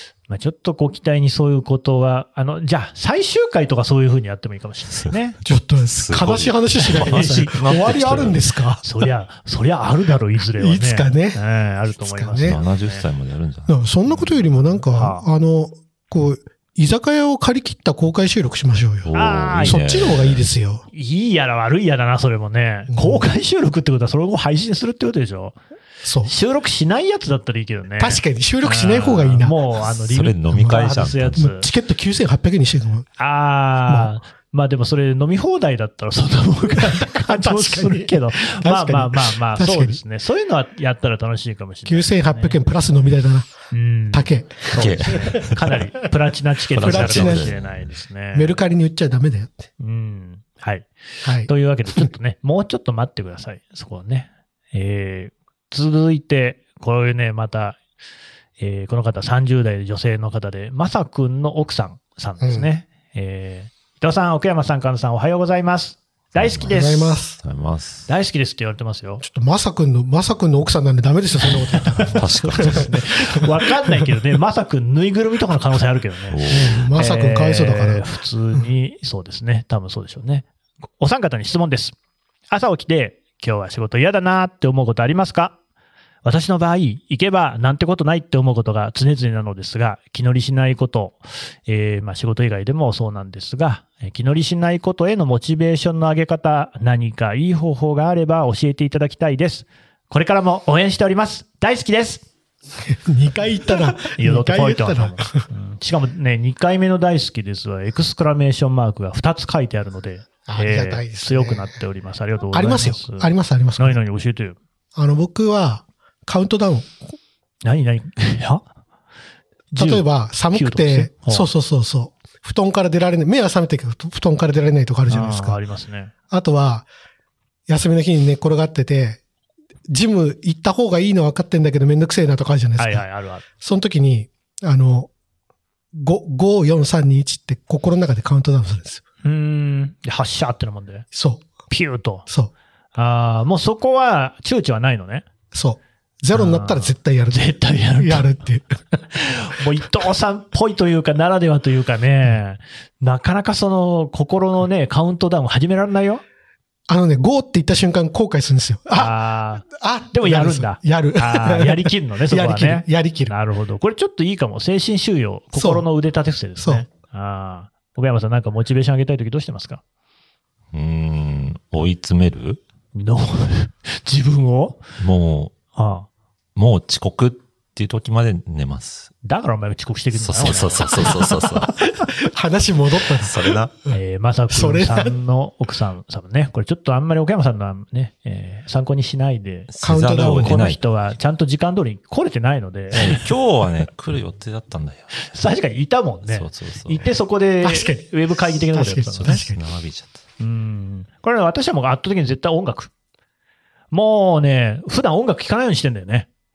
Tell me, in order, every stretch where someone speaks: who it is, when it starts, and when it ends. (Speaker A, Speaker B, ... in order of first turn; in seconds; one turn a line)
Speaker A: 0.3-5.4
Speaker B: 5.5-8.8
Speaker C: 5.8-8.4
Speaker A: 6.8-7.5
Speaker A: 8.8-13.0
Speaker B: 10.6-11.4
Speaker B: 11.9-12.6
Speaker C: 12.5-14.4
Speaker B: 13.7-20.8
Speaker A: 14.5-15.3
Speaker C: 19.0-20.4
Speaker A: 19.1-19.9
Speaker A: 20.9-25.6
Speaker B: 22.9-23.3
Speaker B: 26.0-26.3
Speaker A: 26.2-31.7
Speaker B: 28.0-29.6
Speaker C: 29.8-31.5
Speaker B: 30.5-30.8
Speaker B: 31.4-33.1
Speaker A: 33.2-42.6
Speaker B: 33.9-34.1
Speaker B: 36.8-40.0
Speaker B: 41.9-43.5
Speaker A: 43.7-48.6
Speaker B: 44.1-45.6
Speaker C: 44.8-45.6
Speaker C: 46.7-47.9
Speaker B: 46.8-47.6
Speaker B: 48.3-49.6
Speaker A: 49.8-50.9
Speaker B: 51.2-52.0
Speaker A: 51.4-57.8
Speaker A: 58.6-67.2
Speaker B: 62.4-62.7
Speaker C: 66.3-68.1
Speaker B: 66.7-67.4
Speaker A: 68.1-69.2
Speaker B: 69.2-73.5
Speaker A: 72.0-80.5
Speaker C: 72.1-73.0
Speaker C: 76.3-76.9
Speaker B: 76.5-78.0
Speaker A: 81.0-82.0
Speaker A: 82.5-85.6
Speaker A: 86.2-102.2
Speaker B: 102.8-105.4
Speaker A: 104.0-114.6
Speaker B: 110.5-111.8
Speaker B: 112.5-114.0
Speaker B: 115.0-117.2
Speaker A: 117.6-118.7
Speaker A: 119.7-121.5
Speaker B: 119.8-125.6
Speaker A: 125.1-126.1
Speaker B: 126.3-126.9
Speaker B: 127.7-129.2
Speaker B: 129.9-133.0
Speaker A: 132.8-133.4
Speaker B: 133.6-135.1
Speaker B: 135.9-139.0
Speaker A: 139.2-141.1
Speaker B: 141.1-141.5
Speaker A: 141.7-142.3
Speaker B: 142.3-142.5
Speaker A: 142.9-145.3
Speaker B: 145.5-148.7
Speaker A: 146.3-148.3
Speaker A: 149.1-156.2
Speaker B: 156.9-159.1
Speaker A: 158.9-169.8
Speaker B: 159.7-163.3
Speaker B: 165.5-165.9
Speaker B: 166.6-166.9
Speaker C: 170.7-172.6
Speaker A: 172.9-174.8
Speaker C: 175.0-175.5
Speaker A: 175.7-176.1
Speaker C: 176.6-179.1
Speaker A: 179.2-182.0
Speaker C: 180.2-181.7
Speaker B: 182.2-183.6
Speaker C: 183.2-183.7
Speaker A: 183.9-193.3
Speaker B: 184.5-185.1
Speaker C: 189.7-190.8
Speaker B: 189.8-190.7
Speaker C: 192.9-195.2
Speaker A: 195.2-199.4
Speaker C: 196.3-197.1
Speaker B: 197.6-199.6
Speaker C: 199.2-200.2
Speaker A: 200.4-202.9
Speaker A: 203.9-206.3